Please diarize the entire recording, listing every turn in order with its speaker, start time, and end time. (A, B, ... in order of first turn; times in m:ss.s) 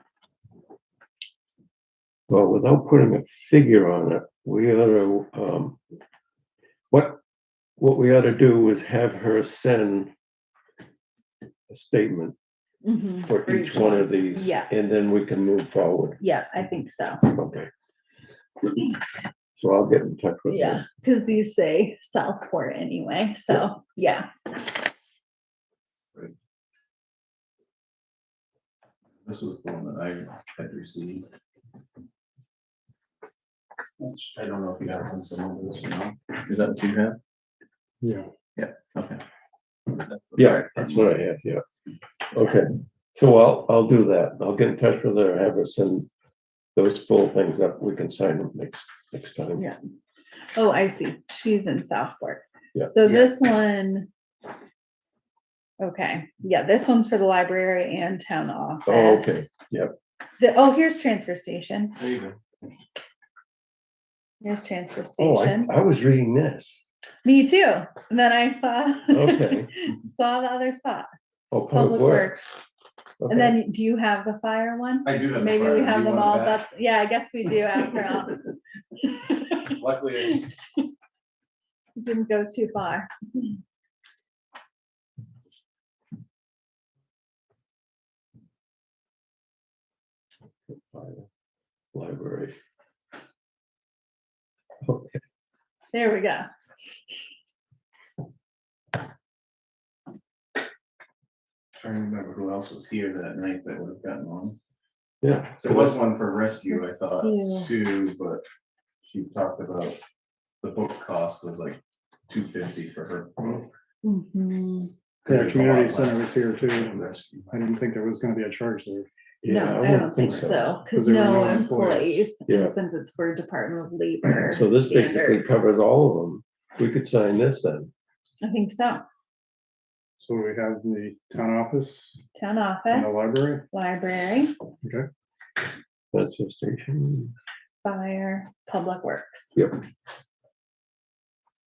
0:02.3-0:05.8 A
0:06.9-0:07.2 A
0:07.8-0:10.1 A
0:11.7-0:12.4 A
0:12.8-0:14.7 B
0:13.2-0:16.2 A
0:16.2-0:17.2 B
0:17.2-0:17.7 A
0:19.6-0:20.8 A
0:20.5-0:24.3 B
0:29.2-0:31.3 C
0:34.0-0:37.2 C
0:38.0-0:38.3 D
0:38.6-0:39.2 C
0:39.9-0:41.1 C
0:40.4-0:41.6 A
0:42.3-0:46.1 A
0:46.8-0:49.6 A
0:50.6-0:54.1 B
0:53.0-0:53.3 C
0:55.8-0:59.4 B
0:58.9-1:00.0 A
1:00.4-1:02.0 B
1:02.0-1:02.4 C
1:04.4-1:05.7 B
1:05.2-1:06.8 A
1:07.2-1:11.1 B
1:09.1-1:09.7 A
1:11.5-1:12.3 A
1:11.7-1:12.6 B
1:13.2-1:13.6 A
1:13.3-1:18.4 B
1:15.0-1:16.6 C
1:19.0-1:19.8 B
1:19.7-1:20.4 C
1:22.0-1:23.5 B
1:30.7-1:31.3 A
1:31.9-1:32.6 A
1:34.8-1:35.2 A
1:35.9-1:36.5 B
1:41.8-1:44.6 C
1:45.2-1:46.0 A
1:45.6-1:48.4 C
1:46.7-1:47.7 B
1:49.0-1:50.0 C
1:50.6-1:53.7 C
1:54.0-1:54.9 B
1:55.2-1:57.5 C
1:55.3-1:59.1 D
1:59.4-2:00.7 A
1:59.4-2:05.6 B
2:00.9-2:02.2 D
2:02.5-2:02.8 A
2:04.5-2:07.9 A
2:08.4-2:09.0 B
2:10.2-2:12.2 D
2:12.4-2:14.5 B
2:12.9-2:13.7 D
2:14.8-2:15.1 D
2:16.1-2:17.3 A
2:17.8-2:19.5 B